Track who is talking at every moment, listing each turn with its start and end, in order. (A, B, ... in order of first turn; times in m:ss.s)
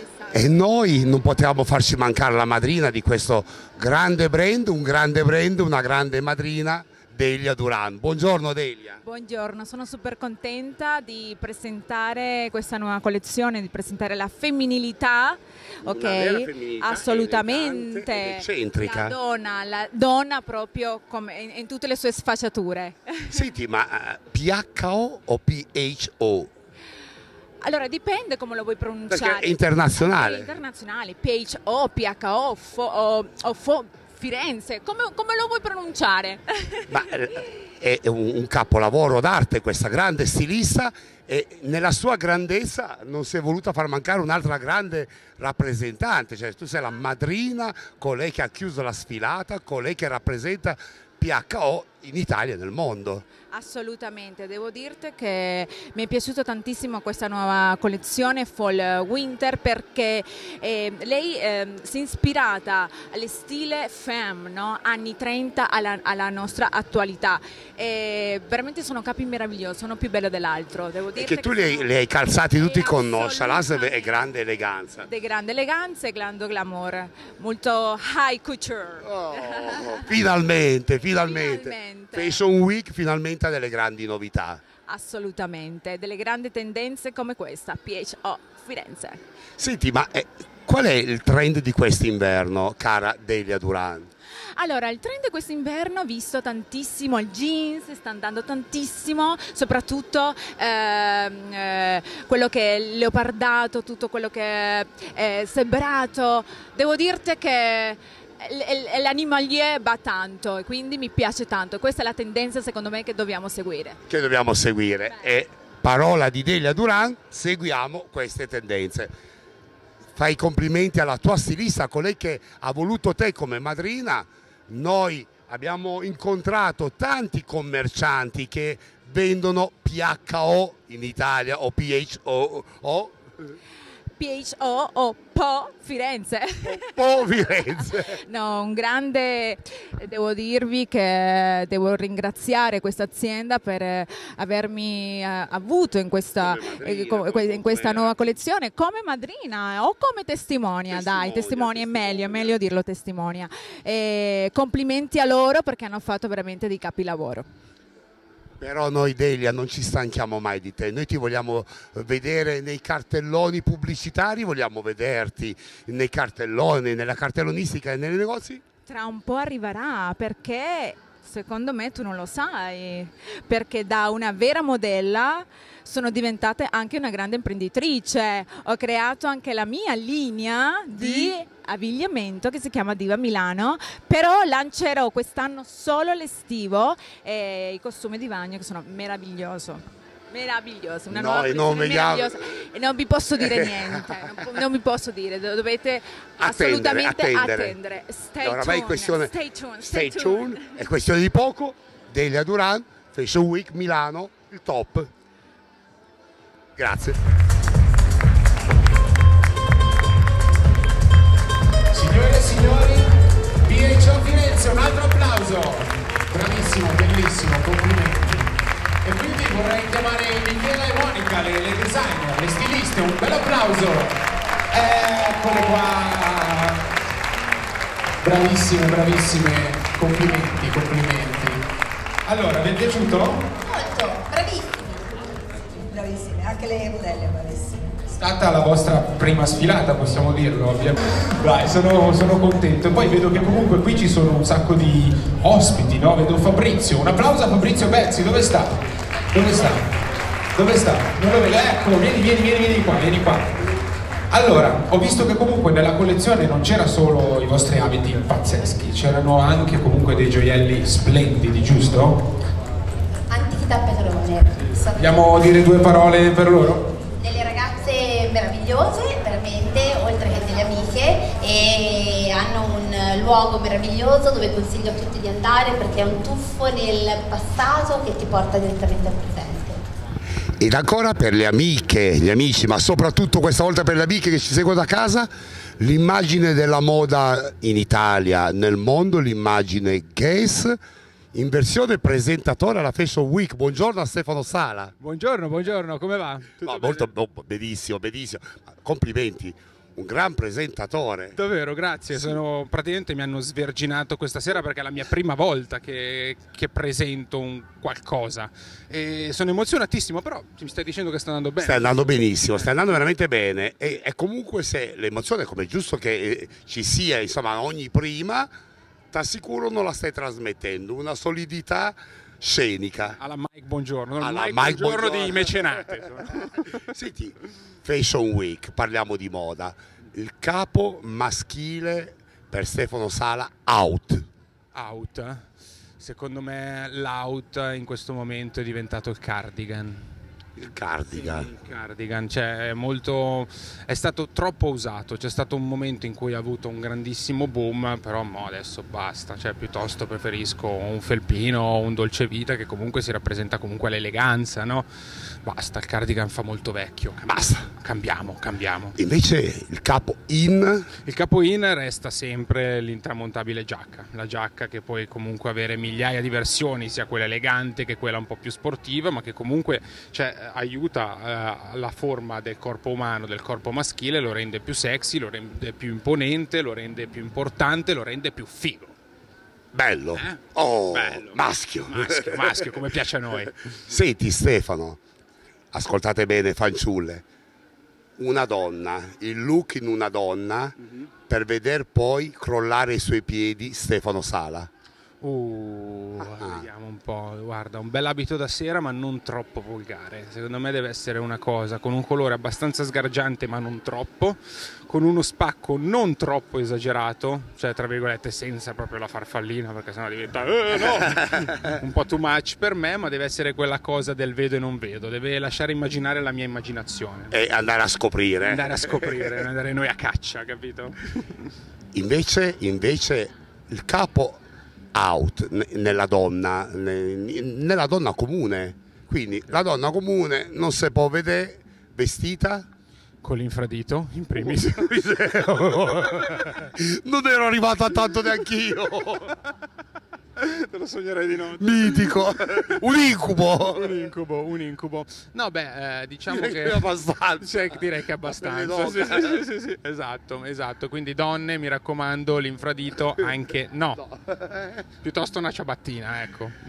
0:00.3-0:09.0 A
0:09.0-0:23.4 B
0:15.8-0:19.2 A
0:23.3-0:26.5 A
0:27.6-0:36.8 B
0:29.1-0:30.5 A
0:36.9-0:53.3 A
0:53.5-1:11.9 B
1:11.2-1:15.1 A
1:12.5-1:14.2 B
1:15.0-1:20.1 B
1:19.0-1:24.6 A
1:21.2-1:22.4 B
1:24.9-1:29.2 B
1:29.6-1:34.1 A
1:34.6-1:54.0 B
1:54.1-1:59.1 A
2:00.2-2:13.2 A
2:14.2-2:16.9 B
2:16.6-2:18.2 A
2:18.1-2:37.5 B
2:26.4-2:28.3 A
2:30.9-2:32.5 A
2:38.6-2:48.6 A
2:48.9-3:20.7 B
3:11.1-3:12.3 A
3:13.5-3:13.8 A
3:16.4-3:17.8 A
3:18.4-3:19.3 A
3:19.8-3:25.1 A
3:26.8-3:27.2 A
3:31.9-3:33.1 C
3:33.6-3:38.5 C
3:39.0-3:44.2 C
3:44.7-3:46.8 C
3:48.2-3:51.6 C
3:52.3-3:53.5 C
3:53.7-3:55.0 D
3:55.9-3:57.6 D
3:58.1-4:08.8 C
4:09.3-4:09.9 C
4:10.6-4:13.5 C
4:14.3-4:22.2 C
4:23.3-4:25.0 D
4:25.0-4:26.9 C
4:27.2-4:39.8 D
4:40.6-4:50.8 A
4:51.3-4:54.9 A
4:55.0-4:57.1 C
4:56.6-5:01.4 A
5:01.4-5:12.7 C
5:11.6-5:18.5 A
5:19.1-5:23.2 A
5:23.1-5:26.9 C
5:24.2-5:25.7 A
5:26.9-5:34.3 A
5:34.7-5:35.5 C
5:36.0-5:40.1 C
5:40.6-5:41.5 A
5:41.1-5:54.9 C
5:55.4-5:59.0 C
5:57.2-5:57.7 A
5:59.0-6:00.9 A
6:01.0-6:18.9 C
6:19.7-6:22.7 A
6:20.1-6:23.6 C
6:23.9-6:25.0 A
6:25.7-6:27.2 A
6:28.2-6:30.8 A
6:31.3-6:34.7 A
6:35.2-6:57.4 C
6:36.3-6:36.7 A
6:57.3-6:59.3 A
6:58.4-7:01.0 C
7:01.9-7:04.4 A
7:04.9-7:12.7 A
7:13.2-7:15.0 C
7:14.4-7:19.3 A
7:20.4-7:22.9 C
7:21.6-7:24.0 A
7:23.7-7:34.0 C
7:26.2-7:27.7 A
7:28.3-7:29.3 A
7:34.3-7:34.7 A
7:35.0-7:36.6 C